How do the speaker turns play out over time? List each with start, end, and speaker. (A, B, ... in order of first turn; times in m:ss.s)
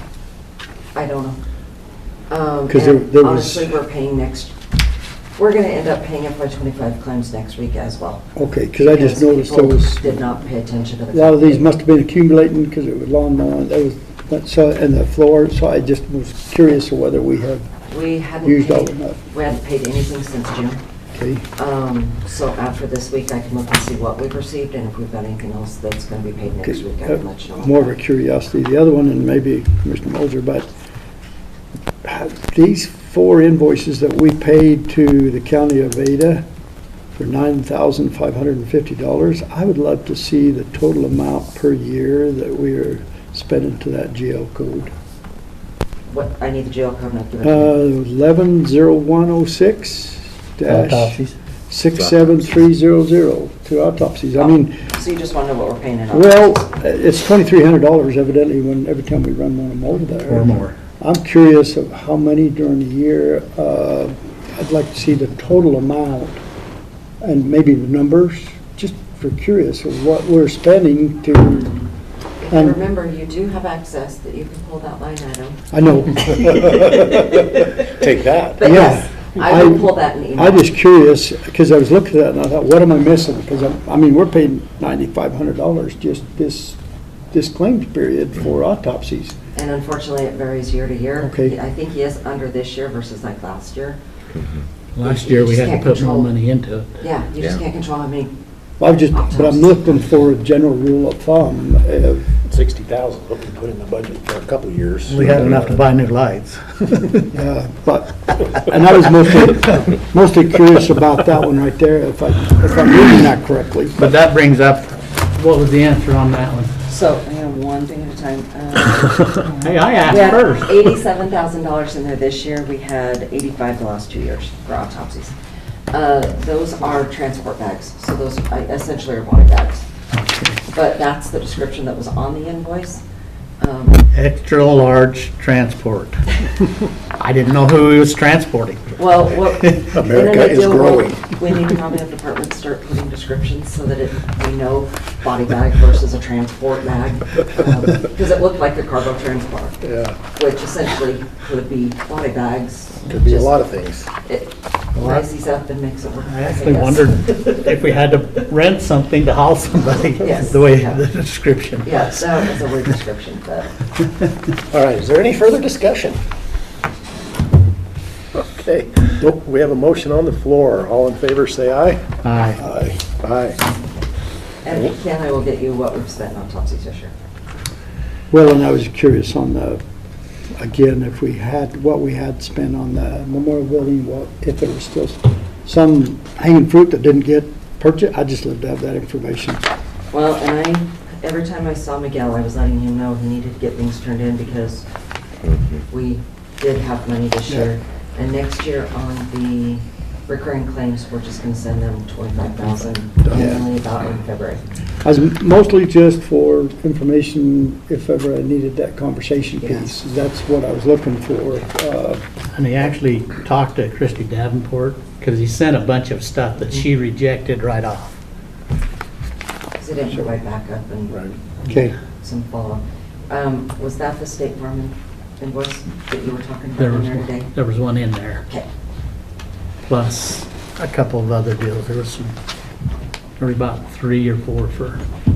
0:00.9-0:01.4 A
0:02.3-0:04.5 A
0:02.7-0:03.7 B
0:05.4-0:08.3 A
0:08.4-0:10.2 B
0:08.8-0:11.6 A
0:11.1-0:17.7 B
0:17.9-0:20.8 A
0:18.4-0:19.2 B
0:21.1-0:21.4 B
0:21.6-0:27.9 A
0:26.7-0:30.7 B
0:32.0-0:36.4 B
0:37.2-0:44.9 B
0:46.1-0:47.7 A
0:47.4-0:51.2 B
0:50.7-0:51.3 C
0:51.7-0:54.8 B
0:54.4-0:56.5 A
0:56.1-1:06.4 B
1:00.2-1:00.8 C
1:07.2-1:11.8 B
1:12.4-1:15.6 A
1:12.5-1:12.8 B
1:15.7-1:17.0 B
1:16.3-1:17.8 A
1:17.9-1:18.6 D
1:18.6-1:20.7 A
1:18.6-1:26.8 B
1:27.3-1:29.4 B
1:29.5-1:34.0 A
1:31.2-1:31.5 B
1:35.0-1:37.0 C
1:35.0-1:36.3 A
1:37.0-1:38.3 A
1:38.8-1:42.3 B
1:39.1-1:39.9 A
1:42.4-1:45.8 D
1:45.1-1:47.2 C
1:47.3-1:54.0 B
1:54.0-1:56.7 C
1:56.9-2:05.3 A
1:59.5-2:00.7 C
2:05.9-2:09.8 A
2:10.1-2:10.6 C
2:10.7-2:13.0 A
2:13.6-2:14.0 A
2:14.1-2:16.3 C
2:17.2-2:19.0 C
2:19.0-2:33.6 A
2:19.6-2:20.0 C
2:20.0-2:21.3 D
2:29.8-2:30.2 D
2:33.1-2:34.1 D
2:34.2-2:37.9 A
2:35.0-2:35.2 C
2:36.2-2:42.2 C
2:40.2-2:41.0 A
2:41.8-2:43.7 A
2:44.7-2:46.2 D
2:48.3-2:52.0 D
2:52.2-2:52.6 C
2:52.6-2:53.6 D
2:54.6-2:57.1 A
2:58.3-2:59.8 B
3:00.6-3:09.6 B
3:10.1-3:14.8 A
3:15.9-3:24.6 A
3:23.2-3:23.6 B
3:25.0-3:32.2 B
3:29.6-3:30.0 A
3:32.5-3:38.2 C
3:39.8-3:47.5 A
3:41.7-3:42.0 B
3:46.8-3:48.4 C
3:49.8-3:52.3 C
3:53.4-3:55.0 C